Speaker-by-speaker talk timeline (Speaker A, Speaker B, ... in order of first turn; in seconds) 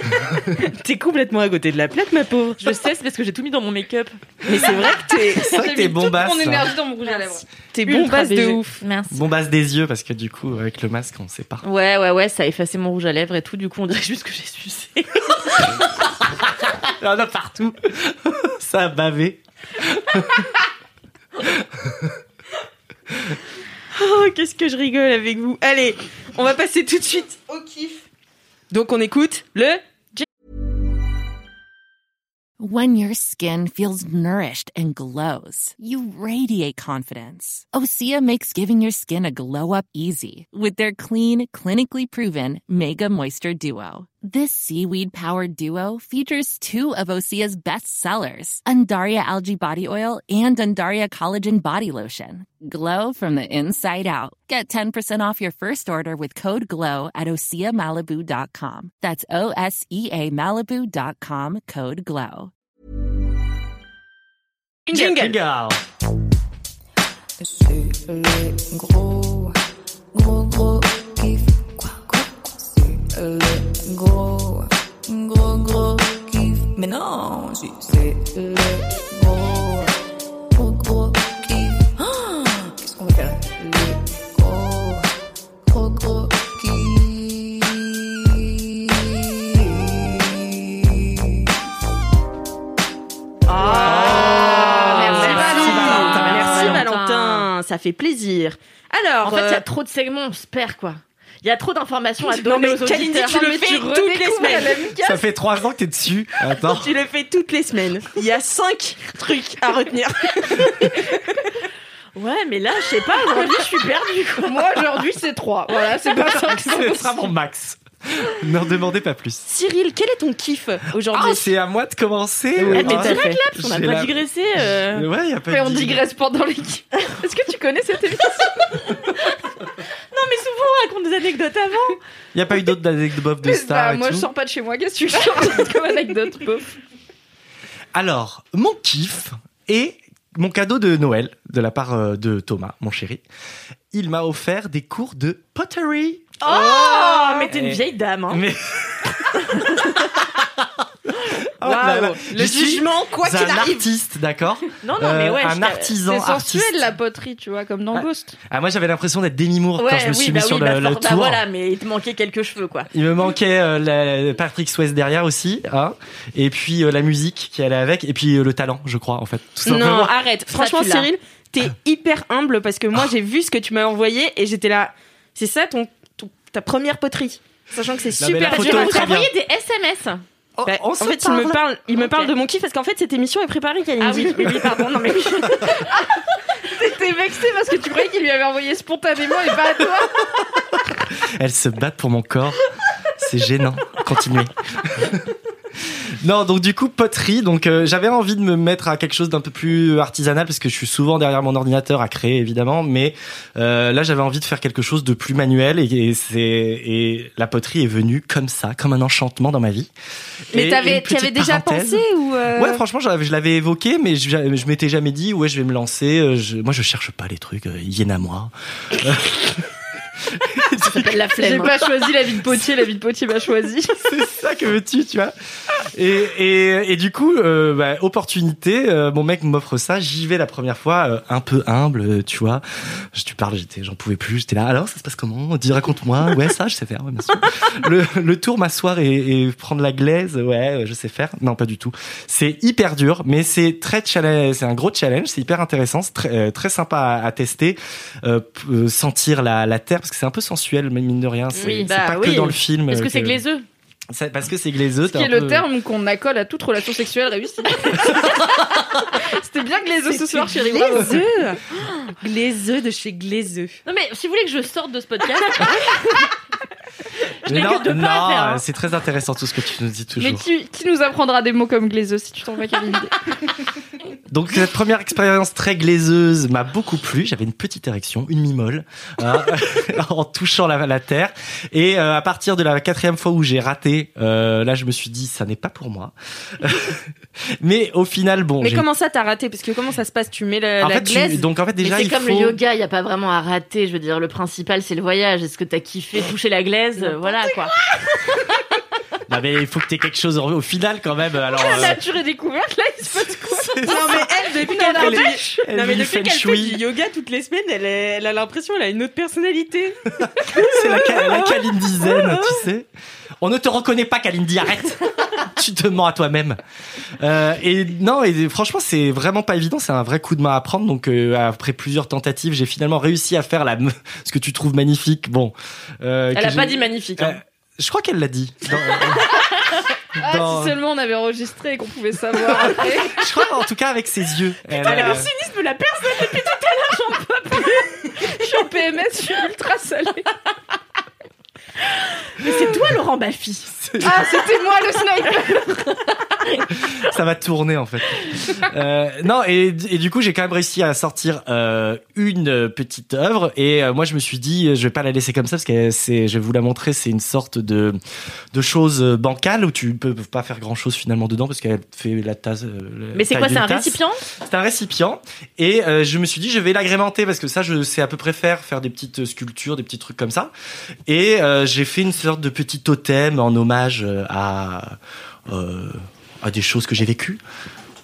Speaker A: 0.6-2.8, 4.4-5.6, 7.7-8.8, 23.9-28.0, 28.7-30.2, 64.9-65.4, 93.6-94.1, 94.7-99.6, 102.3-104.9, 106.5-111.0, 119.5-121.5, 122.5-123.4, 151.6-153.9, 169.6-179.2, 180.6-184.8, 210.5-212.4, 251.6-252.5, 260.1-261.6, 262.2-263.8, 288.6-291.5, 303.9-310.0, 310.5-312.6, 334.8-337.6
Speaker B: 2.6-4.6, 8.8-9.2, 11.6-16.1, 93.5-97.4, 99.2-103.4, 112.1-114.8, 122.7-125.1, 130.1-132.0, 146.4-148.4, 149.4-149.9, 154.8-155.9, 159.8-162.9, 170.5-171.1, 178.4-180.2, 181.9-182.3, 184.0-185.9, 220.8-221.9, 251.6-253.7, 263.8-265.8, 267.4-268.6, 291.8-297.7, 326.3-327.4, 334.8-335.3, 336.5-336.9, 342.4-343.7, 363.1-364.2
Speaker C: 5.4-6.7, 9.1-11.6, 16.9-20.5, 64.9-65.8, 93.8-96.9, 105.0-107.0, 116.1-119.4, 121.1-124.2, 124.9-126.0, 132.3-134.3, 137.9-143.2, 143.9-156.8, 157.9-161.4, 162.9-170.1, 178.2-179.3, 180.6-181.6, 191.3-192.6, 193.2-195.2, 196.2-209.9, 210.5-219.7, 220.3-221.2, 224.0-225.3, 225.9-253.4, 254.1-255.7, 267.4-270.4, 274.3-287.0, 287.6-288.8, 290.8-292.6, 299.3-302.0, 303.1-306.8, 310.2-312.9, 313.4-316.6, 317.2-329.4, 330.2-330.8, 332.7-335.3, 343.7-344.2, 346.9-358.0, 358.5-370.5, 371.1-374.9, 375.5-377.4
Speaker D: 5.4-8.5, 93.5-96.7, 103.1-105.2, 114.4-117.3, 125.5-128.8, 133.4-136.8, 156.1-158.3, 186.7-190.2, 221.4-224.0, 255.0-258.4, 259.2-261.1, 270.2-273.1, 301.6-305.6, 330.2-333.2, 338.1-340.3, 344.0-345.9
Speaker E: 32.6-62.5
Speaker F: 67.4-69.5, 70.1-80.0, 80.5-85.1, 85.7-91.5